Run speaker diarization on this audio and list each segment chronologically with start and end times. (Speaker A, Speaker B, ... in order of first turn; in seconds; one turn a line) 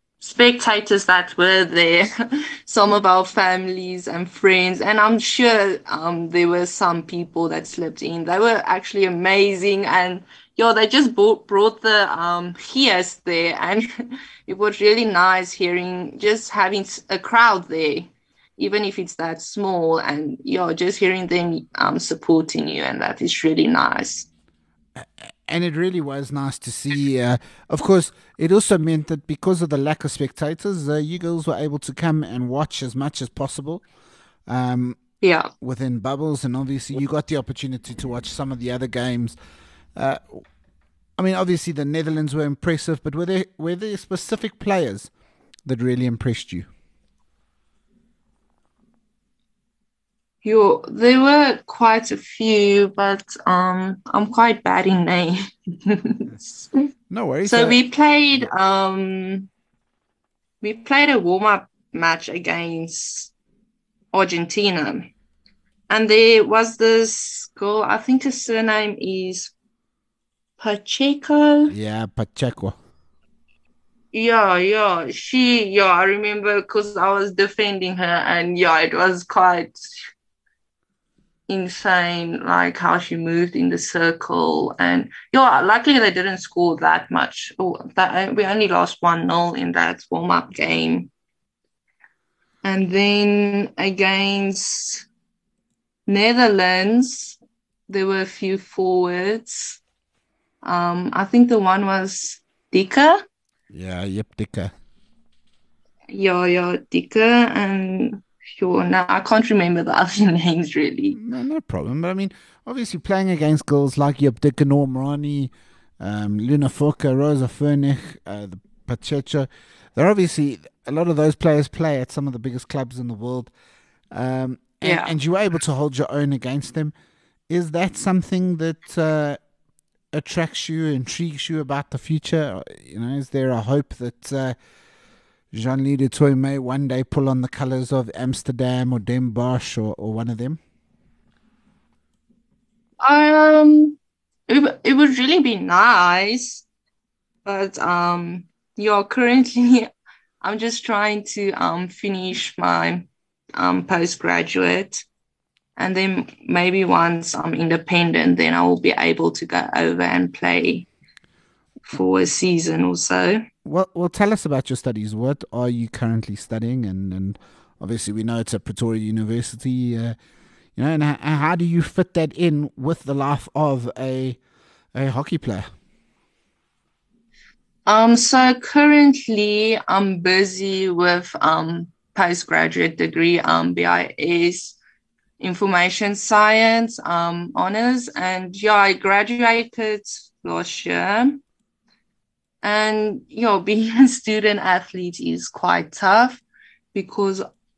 Speaker A: 0.2-24.3
Speaker B: 24.9-33.8
Speaker B: 34.5-35.0
Speaker A: 35.2-35.5
Speaker B: 35.6-39.4
Speaker B: 40.0-40.4
Speaker B: 41.2-45.1
Speaker B: 45.6-46.7
Speaker A: 50.4-56.3
Speaker B: 57.1-57.8
Speaker A: 57.4-59.5
Speaker A: 60.6-63.3
Speaker A: 64.1-65.1
Speaker A: 65.9-69.5
Speaker A: 70.6-71.7
Speaker B: 71.7-72.8
Speaker A: 74.1-79.9
Speaker A: 81.5-91.1
Speaker A: 92.6-95.1
Speaker A: 96.1-99.8
Speaker A: 100.6-103.2
Speaker B: 103.7-104.7
Speaker A: 106.1-111.2
Speaker B: 111.1-123.5
Speaker B: 124.1-126.9
Speaker A: 124.8-125.1
Speaker B: 127.5-129.4
Speaker B: 130.1-134.5
Speaker B: 135.5-140.6
Speaker A: 143.0-146.7
Speaker A: 147.4-149.9
Speaker A: 150.4-155.0
Speaker A: 155.8-160.9
Speaker A: 161.9-163.4
Speaker B: 163.6-170.2
Speaker B: 170.8-174.4
Speaker B: 174.9-175.7
Speaker A: 177.8-184.8
Speaker A: 185.4-191.4
Speaker A: 192.6-196.4
Speaker A: 196.9-197.4